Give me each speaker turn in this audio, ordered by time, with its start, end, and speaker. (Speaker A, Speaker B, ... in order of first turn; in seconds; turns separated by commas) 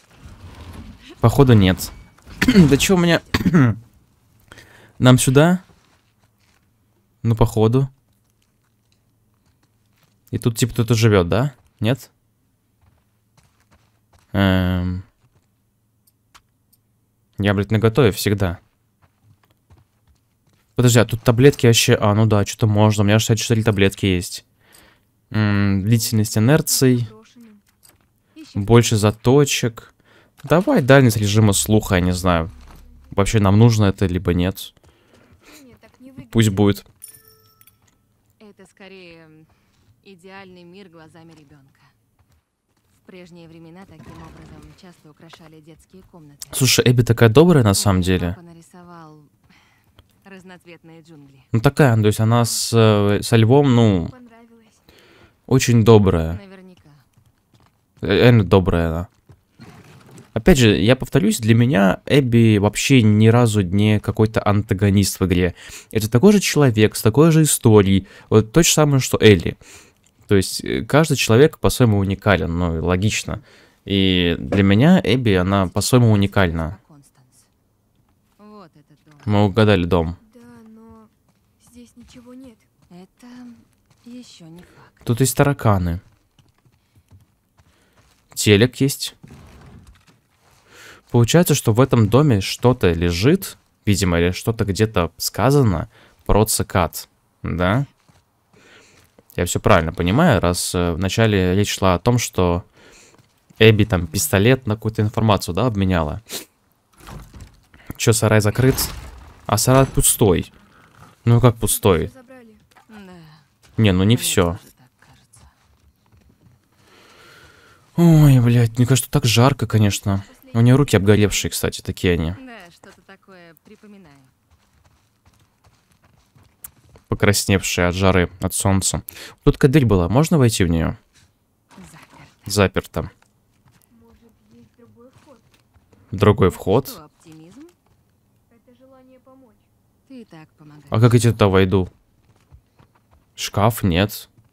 Speaker A: 1.2-1.9, Speaker A: 2.5-3.8, Speaker A: 5.0-5.6, Speaker A: 7.2-7.9, Speaker A: 10.3-12.1, Speaker A: 14.3-15.0, Speaker A: 17.4-18.6, Speaker A: 20.8-24.4, Speaker A: 25.3-27.1, Speaker B: 25.8-27.6, Speaker A: 28.6-29.9, Speaker A: 30.4-32.5, Speaker A: 33.1-34.7, Speaker B: 35.4-36.8, Speaker A: 36.3-36.8, Speaker C: 38.4-39.5, Speaker C: 40.0-41.9, Speaker C: 43.0-46.7, Speaker A: 46.5-48.4, Speaker C: 47.7-49.3, Speaker C: 50.2-51.5, Speaker A: 51.5-54.1, Speaker B: 54.0-54.8, Speaker A: 55.5-56.4, Speaker C: 56.2-57.0, Speaker A: 58.0-59.1, Speaker A: 60.3-69.6, Speaker A: 70.3-76.8, Speaker C: 75.1-77.5, Speaker C: 78.4-79.6, Speaker A: 79.2-80.2, Speaker B: 80.2-82.7, Speaker C: 82.9-85.1, Speaker A: 85.0-86.0, Speaker A: 88.3-89.1, Speaker A: 91.1-97.9, Speaker A: 99.3-102.7, Speaker A: 103.6-106.2, Speaker C: 103.9-104.4, Speaker A: 108.0-108.9, Speaker A: 109.5-110.5, Speaker A: 111.2-112.1, Speaker B: 111.6-112.6, Speaker C: 112.9-113.5, Speaker A: 113.8-114.6, Speaker C: 114.0-115.5, Speaker A: 118.0-122.4, Speaker B: 119.7-121.6, Speaker C: 122.3-124.3, Speaker A: 127.1-131.0, Speaker C: 131.8-132.6, Speaker A: 132.5-133.1, Speaker B: 133.9-135.5, Speaker A: 136.1-137.0, Speaker C: 136.4-137.7, Speaker B: 138.5-139.7, Speaker C: 140.1-141.5, Speaker A: 140.9-141.9, Speaker A: 143.4-144.3